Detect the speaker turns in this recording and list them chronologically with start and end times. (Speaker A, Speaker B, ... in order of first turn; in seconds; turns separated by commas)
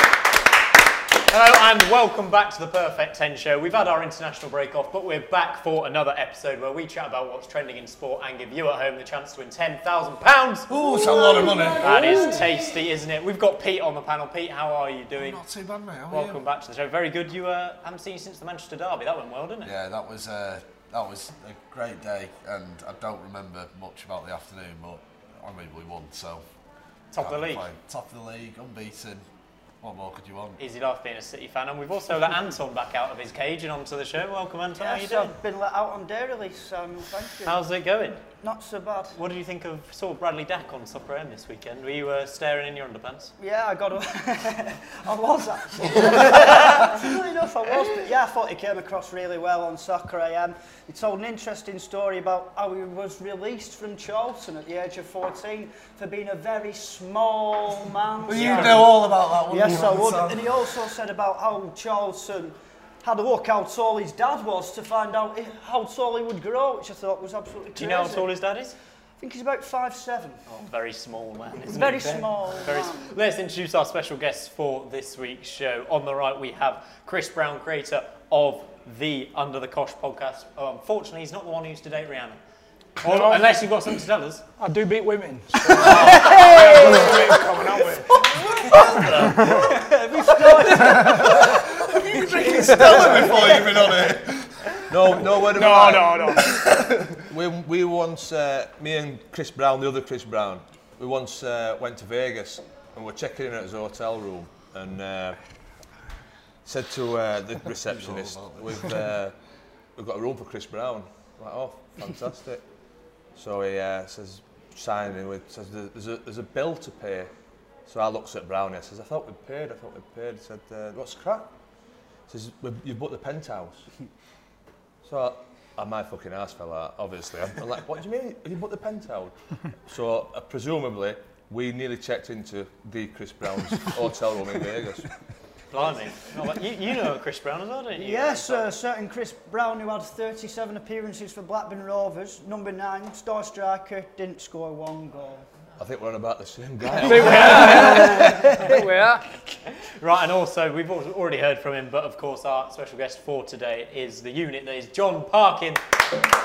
Speaker A: 1.3-10.8, Speaker B: 10.7-12.4, Speaker A: 11.8-15.4, Speaker B: 15.2-16.4, Speaker A: 16.1-19.7, Speaker B: 19.6-26.4, Speaker A: 27.1-27.7, Speaker B: 27.2-29.2, Speaker B: 29.8-30.6, Speaker A: 30.6-35.4, Speaker C: 34.8-37.6, Speaker A: 37.4-38.2, Speaker C: 38.4-39.2, Speaker A: 39.1-43.3, Speaker C: 43.4-68.3, Speaker B: 58.3-60.6, Speaker A: 58.3-58.8, Speaker A: 67.8-68.8, Speaker C: 69.2-70.5, Speaker A: 70.5-82.4, Speaker C: 71.7-73.1, Speaker A: 83.0-84.5, Speaker D: 83.0-83.5, Speaker D: 84.6-88.6, Speaker C: 85.9-87.4, Speaker B: 88.4-89.7, Speaker C: 88.7-91.7, Speaker D: 89.1-89.7, Speaker B: 90.3-95.2, Speaker C: 93.0-93.7, Speaker E: 94.9-96.5, Speaker D: 95.4-96.6, Speaker B: 96.4-97.2, Speaker E: 97.1-105.4, Speaker E: 106.7-109.3, Speaker B: 107.9-108.8, Speaker E: 110.0-112.6, Speaker E: 113.3-117.3, Speaker E: 117.9-121.5, Speaker E: 122.3-123.9, Speaker E: 125.0-129.3, Speaker E: 129.9-135.1, Speaker A: 135.7-138.7, Speaker C: 138.0-145.4, Speaker E: 145.8-148.9, Speaker D: 147.0-149.2, Speaker C: 147.9-148.4, Speaker A: 149.8-155.8